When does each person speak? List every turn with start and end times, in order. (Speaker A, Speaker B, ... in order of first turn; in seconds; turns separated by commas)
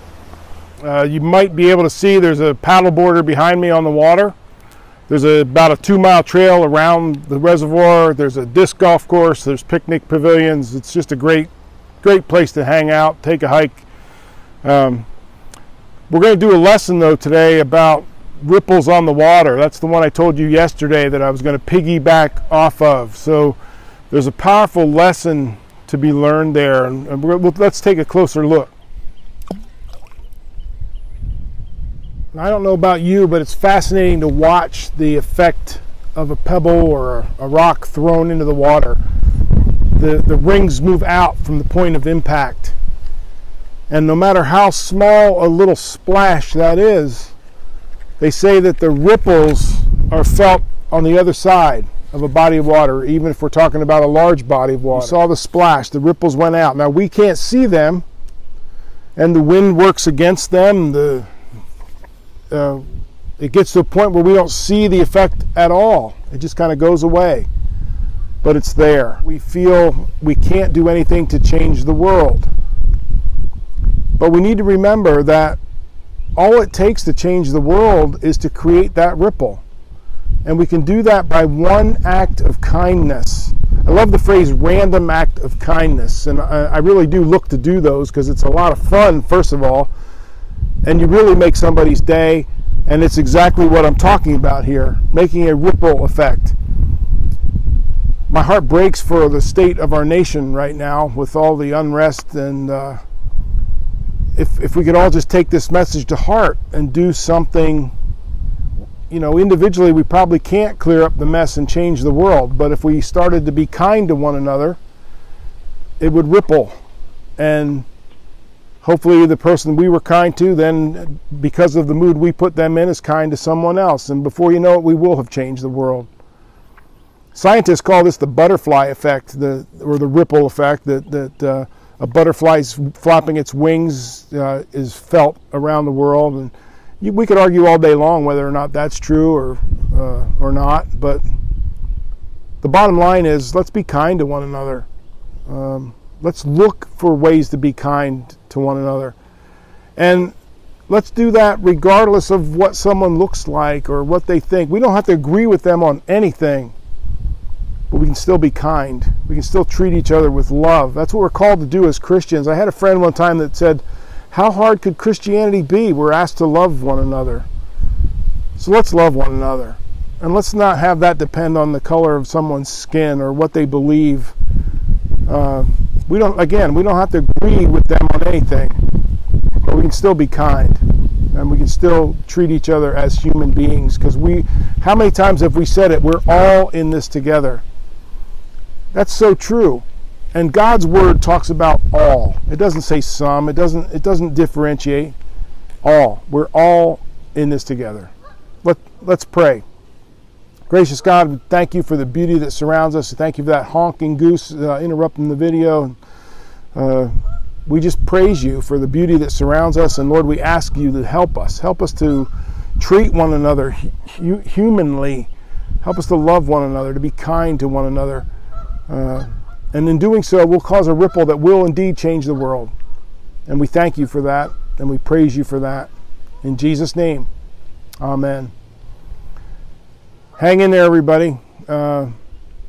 Speaker A: 0.8-4.3, Speaker A: 5.1-11.5, Speaker A: 12.0-13.8, Speaker A: 14.6-15.1, Speaker A: 16.1-23.6, Speaker A: 24.1-28.7, Speaker A: 32.3-39.0, Speaker A: 39.7-42.8, Speaker A: 43.9-47.3, Speaker A: 48.2-58.0, Speaker A: 59.2-61.3, Speaker A: 62.5-67.5, Speaker A: 68.4-72.5, Speaker A: 74.2-75.6, Speaker A: 76.4-79.6, Speaker A: 80.5-89.9, Speaker A: 90.8-96.6, Speaker A: 98.3-103.0, Speaker A: 104.4-107.9, Speaker A: 109.1-114.8, Speaker A: 116.0-116.8, Speaker A: 117.4-117.9, Speaker A: 118.8-126.1, Speaker A: 127.3-141.2, Speaker A: 142.6-144.9, Speaker A: 145.5-149.2, Speaker A: 150.0-150.3, Speaker A: 150.9-156.7, Speaker A: 157.9-167.5, Speaker A: 168.6-174.3, Speaker A: 175.3-178.9, Speaker A: 179.6-187.6, Speaker A: 188.9-195.2, Speaker A: 195.8-198.1, Speaker A: 198.6-199.6, Speaker A: 200.7-206.0, Speaker A: 206.8-215.3, Speaker A: 215.8-218.3, Speaker A: 218.9-222.7, Speaker A: 223.5-225.9, Speaker A: 226.4-227.3, Speaker A: 228.0-228.5, Speaker A: 230.4-232.1